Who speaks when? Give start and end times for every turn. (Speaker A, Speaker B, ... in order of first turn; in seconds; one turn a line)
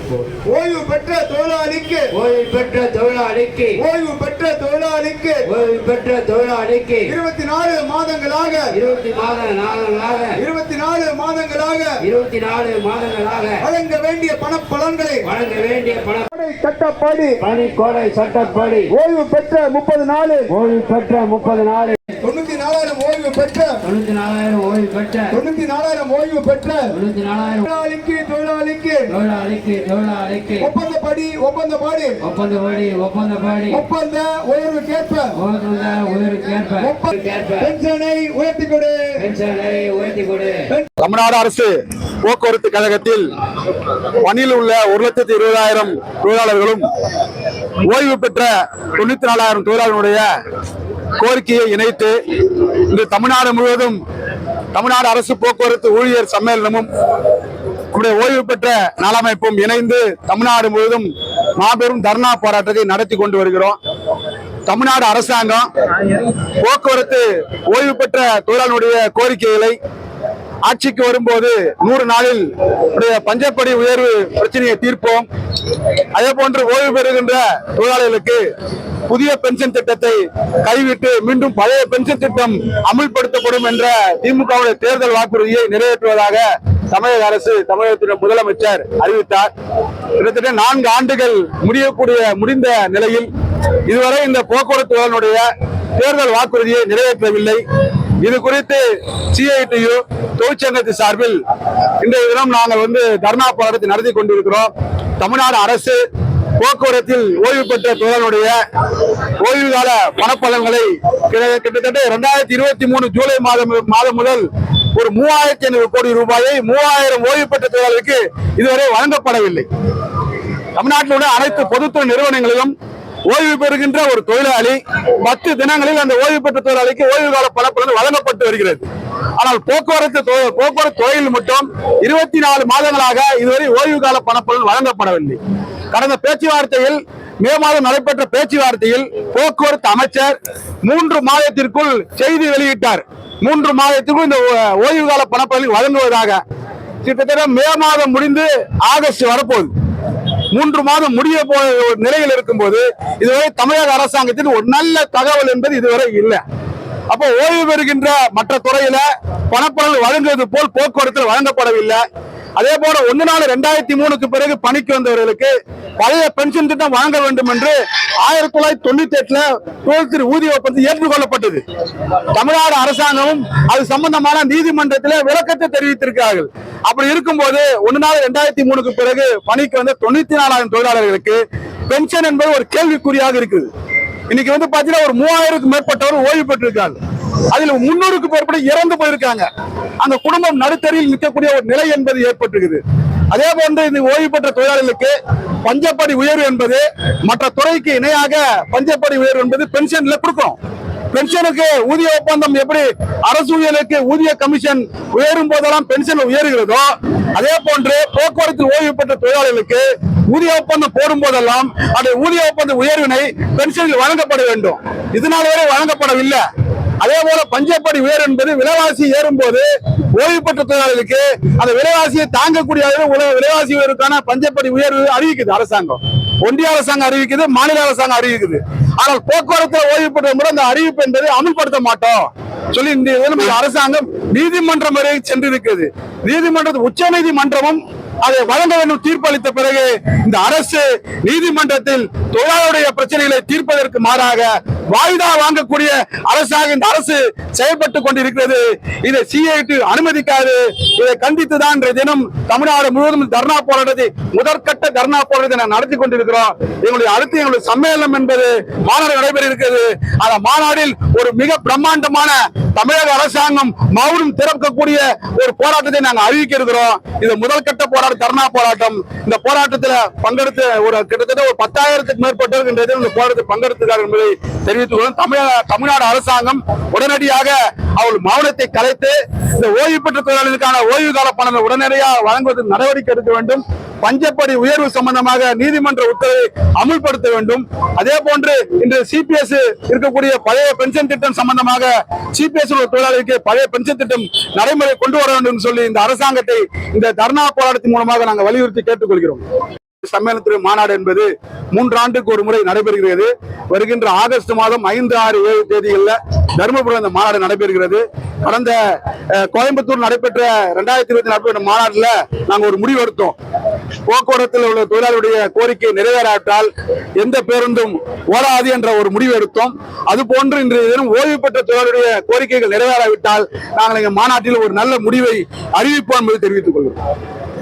Speaker A: 0.5-2.0
Speaker B: 2.1-3.8
Speaker A: 3.8-5.4
Speaker B: 5.5-7.2
Speaker A: 7.1-8.7
Speaker B: 8.7-10.4
Speaker A: 10.4-11.9
Speaker B: 12.0-13.7
Speaker A: 13.7-15.2
Speaker B: 15.2-16.3
Speaker A: 16.4-17.3
Speaker B: 17.4-18.9
Speaker A: 19.0-20.4
Speaker B: 20.5-22.1
Speaker A: 22.2-23.8
Speaker B: 23.8-25.4
Speaker A: 25.3-26.9
Speaker B: 26.9-27.7
Speaker A: 27.7-29.1
Speaker B: 29.1-30.7
Speaker A: 30.6-32.1
Speaker B: 32.2-33.8
Speaker A: 33.8-35.3
Speaker B: 35.3-37.7
Speaker A: 37.7-39.0
Speaker B: 39.2-40.7
Speaker C: 41.0-43.3
Speaker C: 44.1-46.9
Speaker C: 47.8-50.3
Speaker C: 51.2-54.0
Speaker C: 54.7-56.9
Speaker C: 57.9-63.8
Speaker C: 64.7-69.8
Speaker C: 70.7-75.3
Speaker C: 76.2-78.4
Speaker C: 79.1-89.5
Speaker C: 90.2-93.3
Speaker C: 93.9-95.5
Speaker C: 96.0-97.6
Speaker C: 98.2-98.8
Speaker C: 99.3-101.4
Speaker C: 102.0-106.0
Speaker C: 106.5-119.7
Speaker C: 120.8-122.7
Speaker C: 123.3-128.9
Speaker C: 129.4-135.4
Speaker C: 135.9-146.4
Speaker C: 147.0-149.7
Speaker C: 150.5-156.4
Speaker C: 157.1-162.0
Speaker C: 162.6-171.6
Speaker C: 172.3-183.7
Speaker C: 184.3-187.0
Speaker C: 187.5-189.5
Speaker C: 190.0-200.6
Speaker C: 201.1-216.4
Speaker C: 217.0-299.4
Speaker C: 300.0-313.4
Speaker C: 314.1-327.0